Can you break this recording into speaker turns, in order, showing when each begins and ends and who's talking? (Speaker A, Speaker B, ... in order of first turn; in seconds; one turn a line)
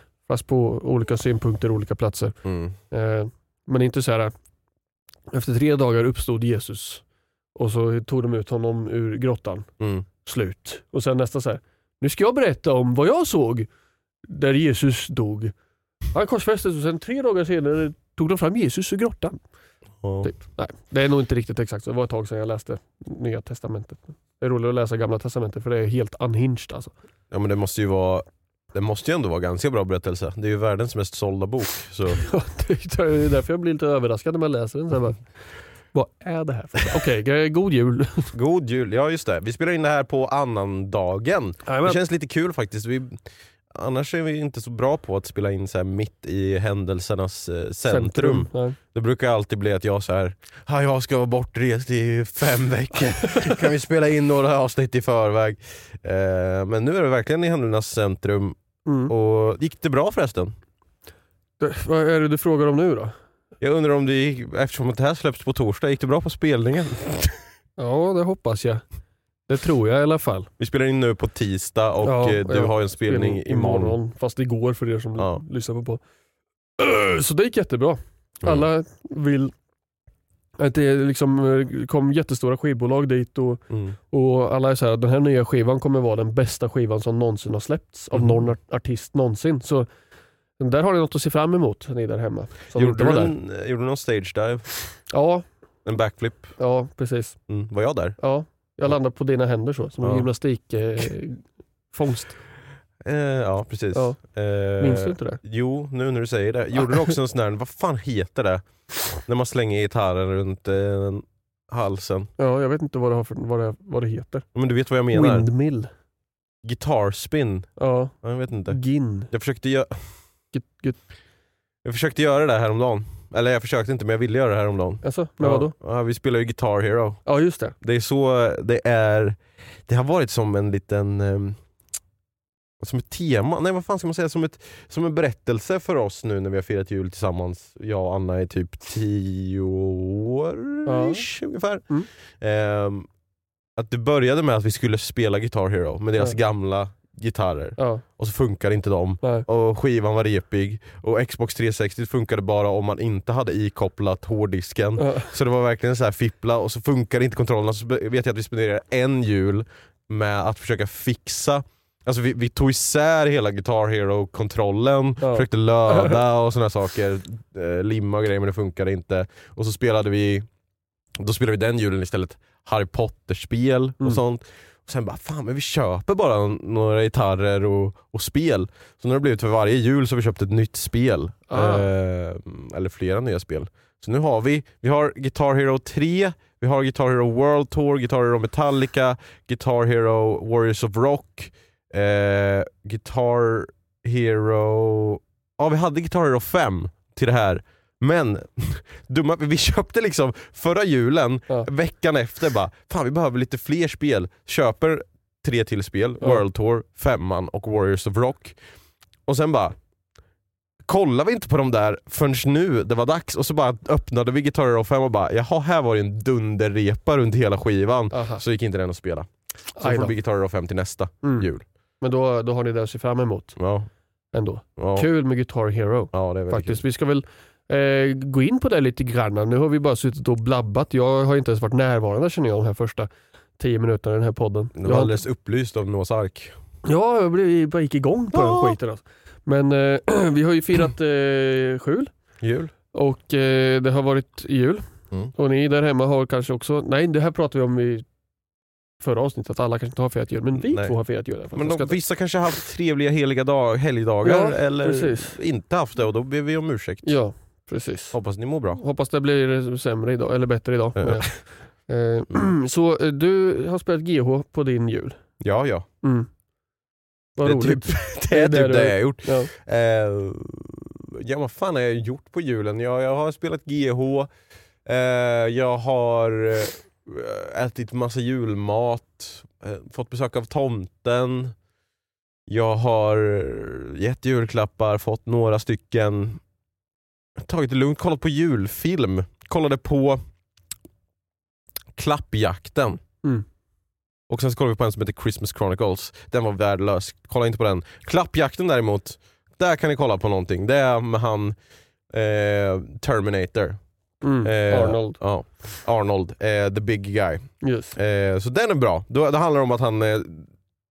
Speaker A: 0.3-2.4
Speaker B: 2.5-2.8
Speaker A: 2.9-4.3
Speaker A: 5.3-7.0
Speaker A: 7.5-9.7
Speaker B: 9.8-10.1
Speaker A: 10.2-13.7
Speaker A: 14.3-15.5
Speaker A: 16.1-19.4
Speaker B: 20.0-20.3
Speaker A: 20.2-26.9
Speaker B: 27.3-32.2
Speaker A: 32.2-35.2
Speaker A: 35.9-38.3
Speaker B: 38.3-43.2
Speaker A: 41.7-42.0
Speaker B: 43.7-58.6
Speaker A: 47.9-48.8
Speaker A: 58.9-59.1
Speaker B: 59.1-60.5
Speaker A: 61.6-63.1
Speaker B: 63.6-67.4
Speaker A: 67.8-68.8
Speaker A: 69.5-70.5
Speaker B: 70.6-74.0
Speaker A: 72.0-76.0
Speaker A: 76.8-79.5
Speaker A: 80.6-89.9
Speaker B: 83.7-84.0
Speaker B: 88.1-88.4
Speaker A: 90.6-93.3
Speaker B: 92.8-95.0
Speaker A: 95.1-95.5
Speaker B: 95.8-96.6
Speaker A: 96.6-97.4
Speaker B: 97.5-98.2
Speaker A: 98.2-102.4
Speaker B: 100.0-100.3
Speaker B: 103.0-108.6
Speaker A: 103.9-104.2
Speaker A: 104.8-105.4
Speaker B: 109.2-112.3
Speaker A: 112.4-114.5
Speaker B: 114.5-115.5
Speaker A: 115.1-115.9
Speaker B: 116.6-120.0
Speaker A: 117.8-118.1
Speaker A: 118.7-119.3
Speaker A: 120.5-121.0
Speaker B: 121.8-127.2
Speaker A: 125.0-125.7
Speaker A: 127.3-127.7
Speaker B: 127.8-131.6
Speaker B: 132.8-141.9
Speaker A: 140.9-141.2
Speaker B: 142.4-143.1
Speaker B: 143.8-170.5
Speaker A: 147.8-148.0
Speaker A: 155.0-155.3
Speaker A: 165.2-166.2
Speaker B: 171.2-208.6
Speaker A: 181.5-181.9
Speaker B: 209.3-209.8
Speaker B: 210.9-221.6
Speaker A: 218.1-218.4
Speaker A: 219.8-220.1
Speaker A: 221.2-221.5
Speaker A: 222.0-223.6
Speaker B: 223.6-223.9
Speaker A: 224.3-235.1
Speaker B: 224.8-225.1
Speaker B: 226.1-226.8
Speaker B: 234.8-236.6
Speaker A: 236.9-242.1
Speaker B: 238.3-238.8
Speaker B: 242.4-242.7
Speaker A: 242.9-244.8
Speaker A: 245.4-248.1
Speaker A: 249.0-252.0
Speaker B: 250.6-250.9
Speaker B: 251.6-257.2
Speaker A: 254.2-255.4
Speaker A: 257.1-258.2
Speaker B: 258.1-258.8
Speaker A: 258.8-261.3
Speaker B: 261.0-261.4
Speaker A: 261.9-265.2
Speaker B: 265.4-265.9
Speaker A: 266.0-266.3
Speaker A: 267.4-269.5
Speaker B: 267.4-274.3
Speaker B: 274.9-281.6
Speaker B: 282.5-286.4
Speaker B: 287.4-290.2
Speaker B: 292.0-293.0
Speaker B: 294.3-301.6
Speaker B: 302.1-303.8
Speaker A: 304.2-305.2
Speaker B: 304.4-310.5
Speaker A: 307.6-307.9